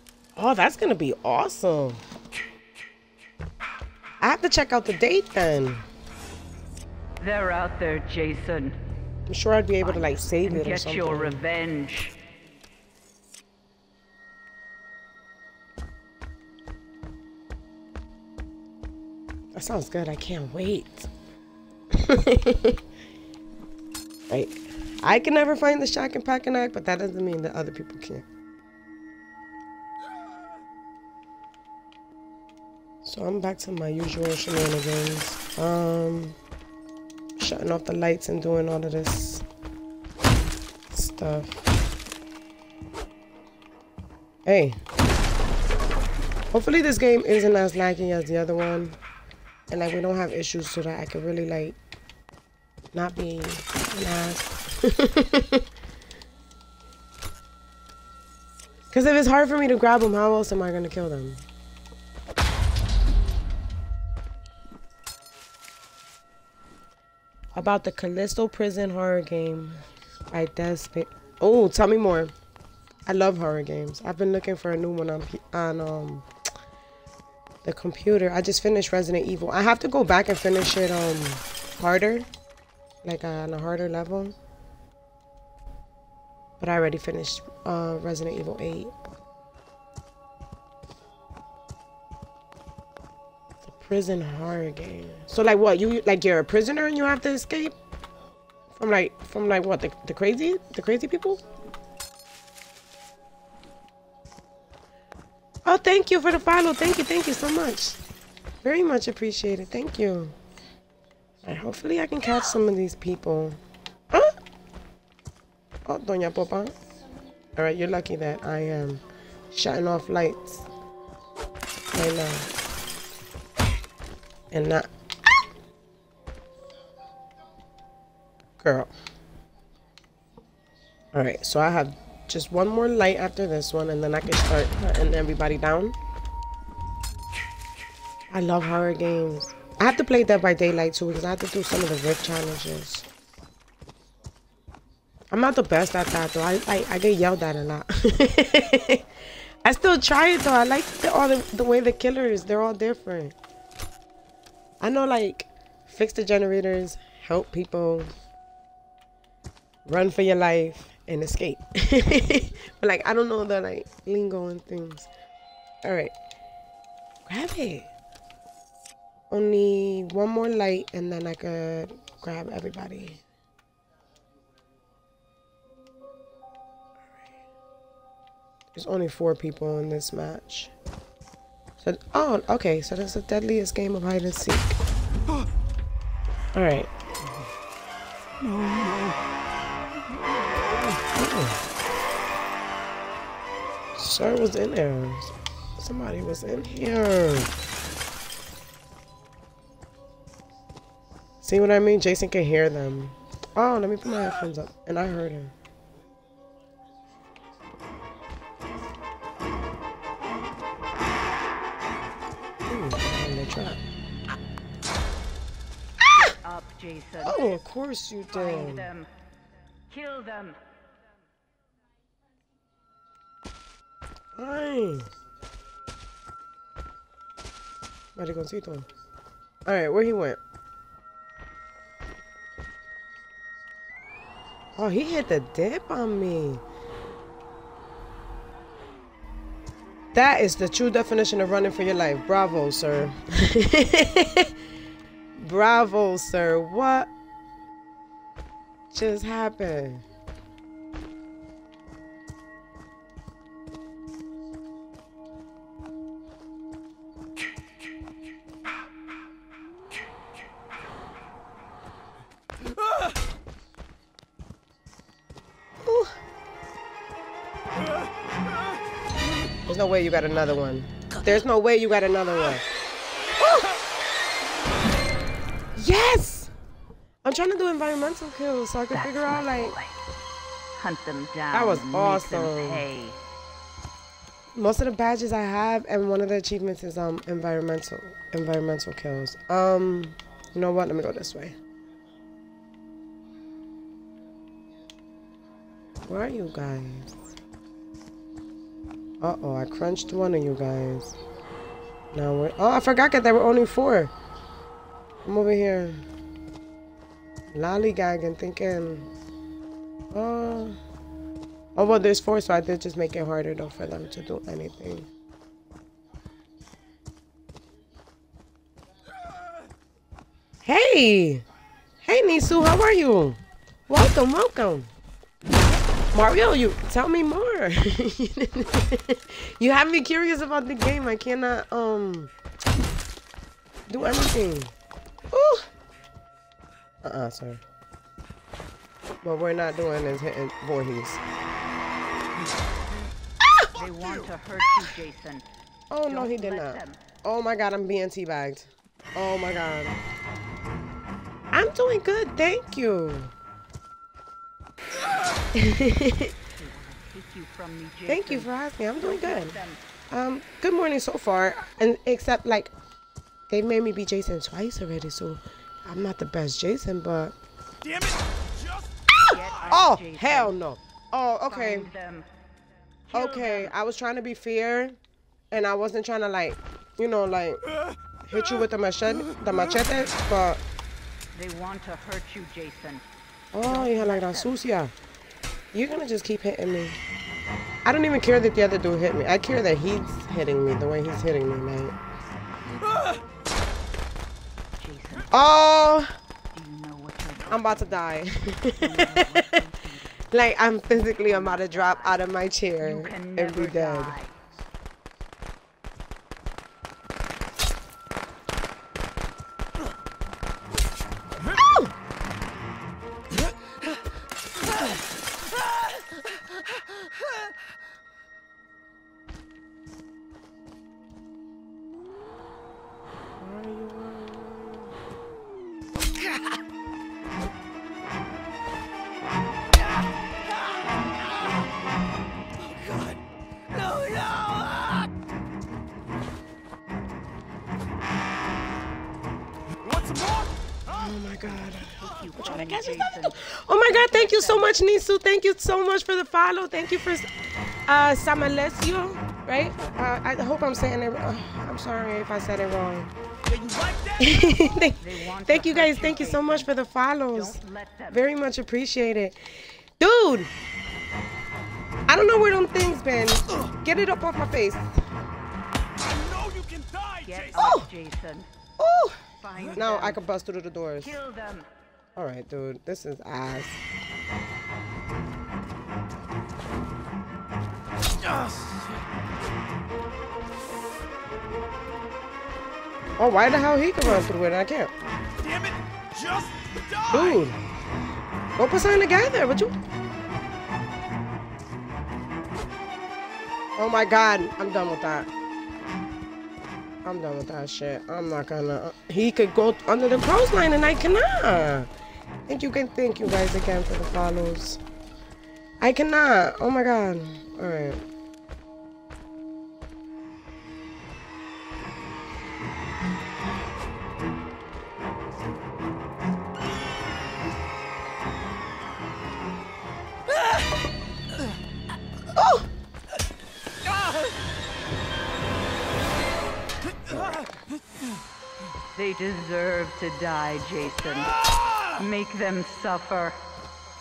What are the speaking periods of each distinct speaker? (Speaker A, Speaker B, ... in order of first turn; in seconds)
Speaker A: 0.3-2.0, 4.2-5.8, 9.3-11.4, 19.5-21.1, 21.9-22.8, 24.3-28.2, 33.0-36.4, 37.4-39.4, 40.9-41.7, 44.4-44.8, 46.5-49.0, 49.7-51.8, 52.9-55.7, 58.9-61.4, 67.5-72.3, 73.0-76.2, 77.6-82.3, 83.0-84.3, 86.6-89.0, 93.6-97.8, 98.7-101.4, 105.6-108.0, 108.6-110.4, 111.4-113.6, 114.1-114.3, 115.8-116.7, 117.5-120.7, 121.9-122.5, 124.5-124.9, 128.6-128.9, 131.1-136.0, 138.3-143.1, 145.3-153.3, 154.8-158.1, 159.8-165.1, 165.8-166.1, 167.2-167.9, 169.3-173.2, 178.7-180.7, 181.8-184.8, 186.5-187.4, 190.9-191.6, 193.9-197.5, 201.4-205.5, 212.7-213.8, 217.2-218.9, 224.3-225.1, 228.2-228.9, 229.7-230.4, 234.7-236.6, 240.1-244.5, 245.3-247.1, 248.9-250.0, 265.8-266.1, 269.6-272.6, 273.4-273.8, 275.7-276.5, 277.2-279.7, 281.5-282.9, 284.5-291.6, 296.0-297.3, 299.2-301.2, 302.1-304.1, 305.2-306.0, 307.5-309.1, 310.1-310.8, 311.8-315.1, 320.6-321.4, 322.0-324.9, 326.1-332.3, 333.9-334.7, 335.3-335.7, 337.0-337.6, 339.2-341.2, 343.4-343.7, 345.9-350.0, 351.5-353.3, 355.5-356.4, 358.1-359.6, 360.1-362.7, 363.5-367.4, 369.7-371.9, 373.1-375.0, 375.5-377.6, 378.2-380.6, 383.5-384.9, 385.7-387.0, 387.8-392.0, 395.3-396.1, 397.5-399.6, 400.3-404.2, 411.5-411.9, 423.4-424.9, 440.9-447.3, 447.9-453.1, 454.2-460.5, 462.1-465.0, 467.6-467.9, 468.8-471.1, 472.1-473.8, 483.2-484.9, 487.1-487.6, 488.6-489.8, 493.8-495.3, 497.0-501.9, 502.5-504.8, 505.8-508.0, 522.3-522.7, 527.1-527.4
Speaker B: 7.2-8.8, 9.8-12.1, 216.1-217.6, 218.3-219.1, 219.9-220.6, 278.9-280.0, 280.8-283.2, 343.7-345.4, 346.1-347.1, 356.5-359.8, 369.3-370.5, 371.5-372.3, 373.1-373.7, 381.3-383.0, 383.6-384.6, 394.8-395.3, 396.5-398.0, 398.7-400.2, 400.9-402.2, 402.8-404.3, 442.0-444.7, 455.0-456.7, 457.3-458.2, 467.2-468.5, 469.4-470.2, 471.0-471.7, 528.9-533.4
Speaker C: 367.8-368.9, 429.7-431.7, 432.6-435.1, 439.8-440.6, 453.5-454.6, 466.0-467.7, 478.2-479.0, 485.4-487.4, 527.0-527.5, 531.5-531.9